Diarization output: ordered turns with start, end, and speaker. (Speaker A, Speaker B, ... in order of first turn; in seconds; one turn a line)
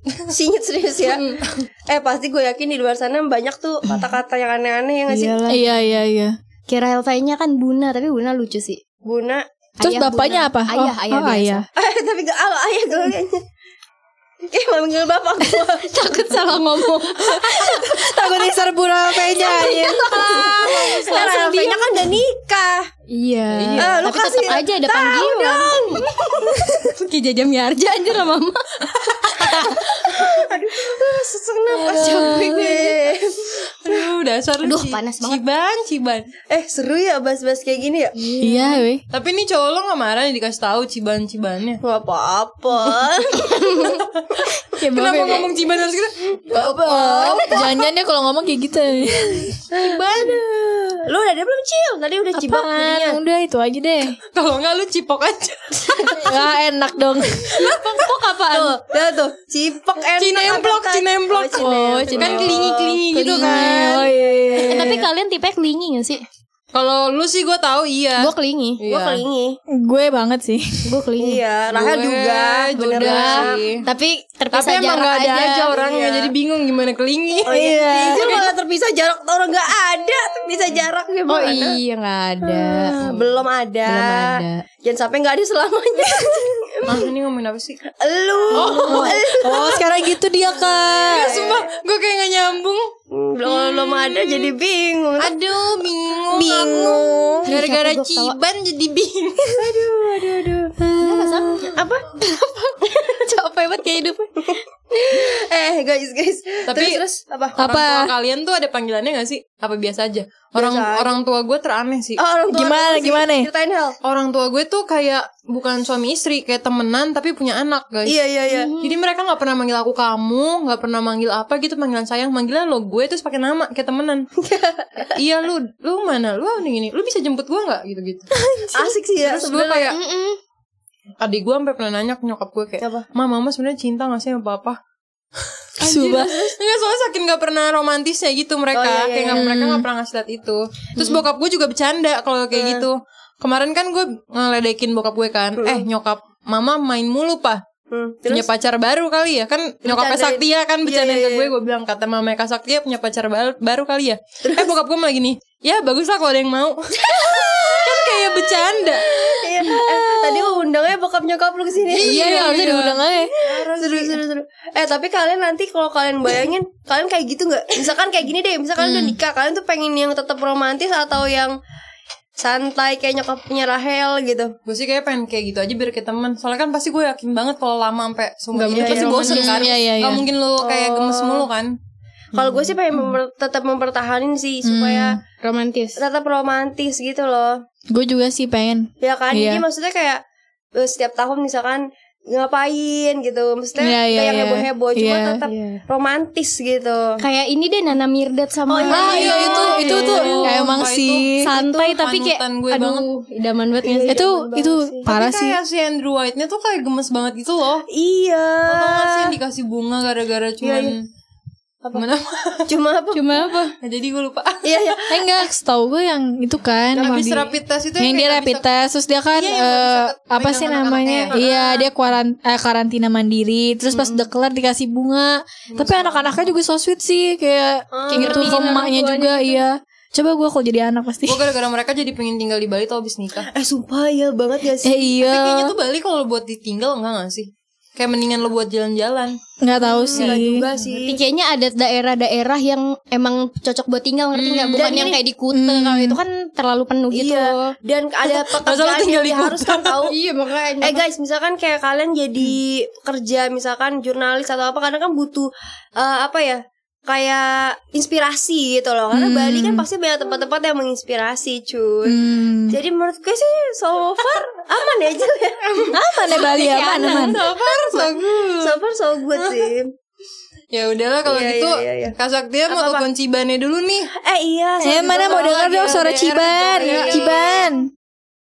Speaker A: 0.3-5.4
Speaker B: 1.1-1.5
Speaker B: 5.1-5.7
Speaker C: 5.5-6.4
Speaker B: 6.7-8.8
Speaker A: 9.0-9.4
Speaker B: 9.8-11.7
Speaker C: 9.8-11.6
Speaker A: 11.8-13.4
Speaker A: 14.5-15.9
Speaker B: 15.5-17.8
Speaker C: 17.4-20.3
Speaker B: 19.4-21.9
Speaker A: 19.8-22.9
Speaker D: 20.1-21.2
Speaker B: 23.1-26.1
Speaker D: 23.5-24.1
Speaker A: 23.8-26.9
Speaker B: 26.8-30.3
Speaker A: 30.0-34.0
Speaker B: 31.7-33.0
Speaker D: 33.8-36.3
Speaker B: 34.6-35.4
Speaker A: 36.5-38.1
Speaker B: 38.2-38.8
Speaker C: 38.4-39.0
Speaker D: 39.1-41.8
Speaker A: 41.8-44.0
Speaker B: 43.5-44.0
Speaker D: 44.3-47.4
Speaker C: 44.7-45.5
Speaker A: 46.5-47.7
Speaker C: 46.5-49.6
Speaker A: 49.7-53.2
Speaker C: 52.3-54.2
Speaker D: 54.3-56.3
Speaker C: 56.1-57.5
Speaker B: 57.5-58.8
Speaker A: 58.5-64.0
Speaker D: 60.2-64.1
Speaker B: 61.6-63.9
Speaker C: 63.1-65.0
Speaker A: 64.5-65.0
Speaker B: 64.7-66.2
Speaker D: 66.7-69.2
Speaker B: 68.2-68.8
Speaker A: 68.9-69.6
Speaker C: 69.7-70.9
Speaker B: 70.8-71.4
Speaker A: 71.2-73.7
Speaker D: 71.7-73.8
Speaker B: 73.0-75.7
Speaker D: 74.5-77.5
Speaker A: 75.7-76.3
Speaker A: 77.5-81.8
Speaker C: 77.5-78.3
Speaker B: 81.3-83.0
Speaker A: 82.4-87.1
Speaker B: 83.8-84.6
Speaker D: 86.8-87.8
Speaker A: 87.9-89.8
Speaker D: 88.5-89.2
Speaker C: 88.5-91.4
Speaker A: 90.8-91.7
Speaker D: 91.1-92.9
Speaker A: 93.1-95.3
Speaker D: 93.4-94.5
Speaker D: 95.2-99.7
Speaker C: 96.3-97.5
Speaker A: 96.4-97.0
Speaker B: 97.5-98.3
Speaker A: 99.5-100.8
Speaker C: 100.8-101.7
Speaker B: 101.0-104.5
Speaker A: 101.7-102.0
Speaker A: 104.9-107.5
Speaker D: 106.7-107.0
Speaker C: 107.5-108.1
Speaker D: 107.6-112.2
Speaker A: 110.5-111.1
Speaker A: 112.2-114.0
Speaker C: 112.5-113.5
Speaker D: 114.0-118.2
Speaker A: 118.0-118.7
Speaker B: 118.5-118.9
Speaker D: 118.8-124.3
Speaker A: 124.4-125.2
Speaker D: 125.1-128.2
Speaker C: 128.4-128.9
Speaker A: 128.7-129.9
Speaker D: 129.2-130.0
Speaker B: 129.9-130.4
Speaker D: 131.2-134.8
Speaker A: 132.8-133.1
Speaker C: 135.8-136.5
Speaker D: 135.8-147.6
Speaker A: 138.7-139.5
Speaker C: 139.3-139.8
Speaker A: 142.5-142.8
Speaker A: 145.6-145.8
Speaker A: 147.9-148.5
Speaker D: 148.3-159.1
Speaker A: 149.8-151.5
Speaker A: 154.4-154.7
Speaker A: 157.0-162.3
Speaker D: 161.9-164.2
Speaker C: 162.0-163.3
Speaker A: 163.4-171.6
Speaker C: 168.8-169.1
Speaker A: 172.4-174.5
Speaker D: 174.7-181.7
Speaker B: 178.5-179.7
Speaker A: 178.7-179.4
Speaker C: 179.3-180.2
Speaker A: 180.6-181.5
Speaker A: 182.3-185.2
Speaker C: 184.6-185.2
Speaker B: 185.4-186.0
Speaker A: 186.0-187.6
Speaker C: 187.9-189.6
Speaker A: 189.0-190.2
Speaker A: 190.8-197.2
Speaker C: 193.8-195.4
Speaker B: 195.4-195.8
Speaker B: 197.2-200.3
Speaker A: 198.7-200.6
Speaker D: 198.9-203.1
Speaker C: 198.9-201.5
Speaker B: 201.4-204.2
Speaker A: 203.8-205.1
Speaker C: 204.1-205.6
Speaker D: 205.1-207.9
Speaker A: 207.9-209.3
Speaker D: 208.7-211.1
Speaker A: 210.6-211.0
Speaker D: 211.9-212.7
Speaker A: 212.7-213.5
Speaker B: 213.1-213.7
Speaker D: 213.8-215.0
Speaker A: 214.6-215.3
Speaker C: 215.1-231.4
Speaker D: 216.9-218.6
Speaker D: 219.3-221.4
Speaker A: 221.3-221.8
Speaker B: 223.9-224.2
Speaker D: 225.7-226.4
Speaker A: 227.9-229.0
Speaker B: 228.1-229.4
Speaker D: 231.2-233.5
Speaker A: 233.5-235.0
Speaker C: 234.8-235.7
Speaker D: 235.2-239.4
Speaker C: 239.6-240.7
Speaker A: 239.8-241.2
Speaker B: 240.9-247.7
Speaker D: 244.3-245.0
Speaker A: 244.7-245.2
Speaker C: 245.5-246.2
Speaker A: 247.1-250.2
Speaker D: 248.2-250.0
Speaker B: 250.0-251.0
Speaker A: 250.8-266.0
Speaker C: 259.1-259.9
Speaker C: 262.0-262.8
Speaker C: 265.9-267.4
Speaker B: 266.3-268.1
Speaker D: 267.0-268.8
Speaker A: 268.6-269.9
Speaker D: 269.3-269.7
Speaker D: 270.7-274.1
Speaker A: 271.3-272.1
Speaker A: 272.7-273.1
Speaker A: 274.2-277.7
Speaker C: 274.8-277.9
Speaker D: 275.2-275.8
Speaker D: 276.7-277.3